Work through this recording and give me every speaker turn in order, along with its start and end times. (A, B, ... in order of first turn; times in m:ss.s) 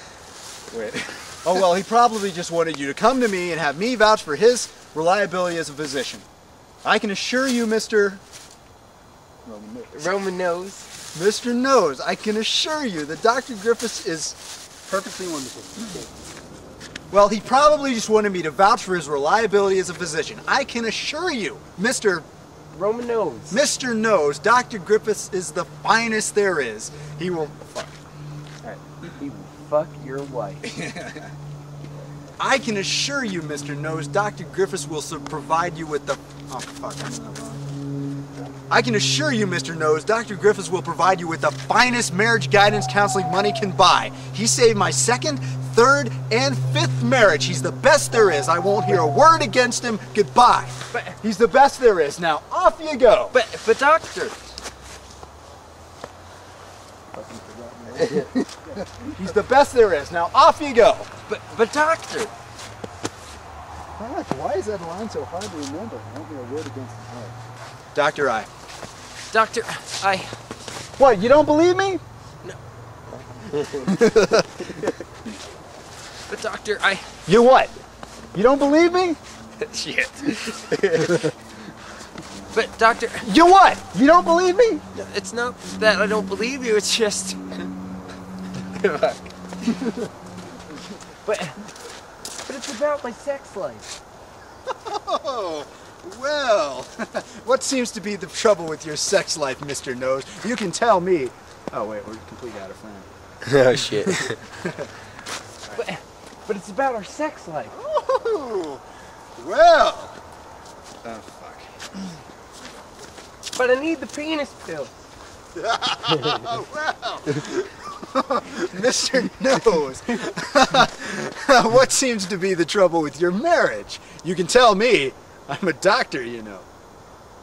0:00.7-0:06.2 A
0:06.8-0:08.2 A
0:09.4-0:10.1 A
0:09.9-0:10.9 B
0:11.1-0:16.1 A
0:17.1-0:22.2 A
0:22.7-0:23.6 B
0:23.5-0:28.0 A
0:29.0-0:30.7 B
0:30.6-0:31.3 A
0:32.4-0:37.7 A
0:38.7-0:53.4 A
0:50.9-0:51.2 B
0:53.3-0:54.4 B
0:57.1-0:58.3 A
0:58.0-0:58.5 B
0:59.0-1:01.1 A
1:01.3-1:02.3 B
1:04.0-1:07.4 A
1:07.9-1:08.5 A
1:09.3-1:10.4 B
1:11.0-1:12.0 A
1:13.3-1:14.9 B
1:13.9-1:14.8 A
1:16.3-1:17.2 B
1:17.2-1:17.7 A
1:18.3-1:19.2 A
1:19.6-1:21.3 B
1:22.5-1:23.3 B
1:23.2-1:24.8 A
1:24.9-1:27.7 B
1:28.6-1:29.3 B
1:31.2-1:31.6 B
1:32.4-1:33.9 B
1:34.7-1:43.1 A
1:43.4-1:44.4 B
1:44.1-1:44.9 A
1:45.7-1:47.7 B
1:47.7-1:48.8 A
1:49.4-1:50.2 A
1:51.0-1:51.9 A
1:53.5-1:54.9 B
1:55.5-2:06.7 A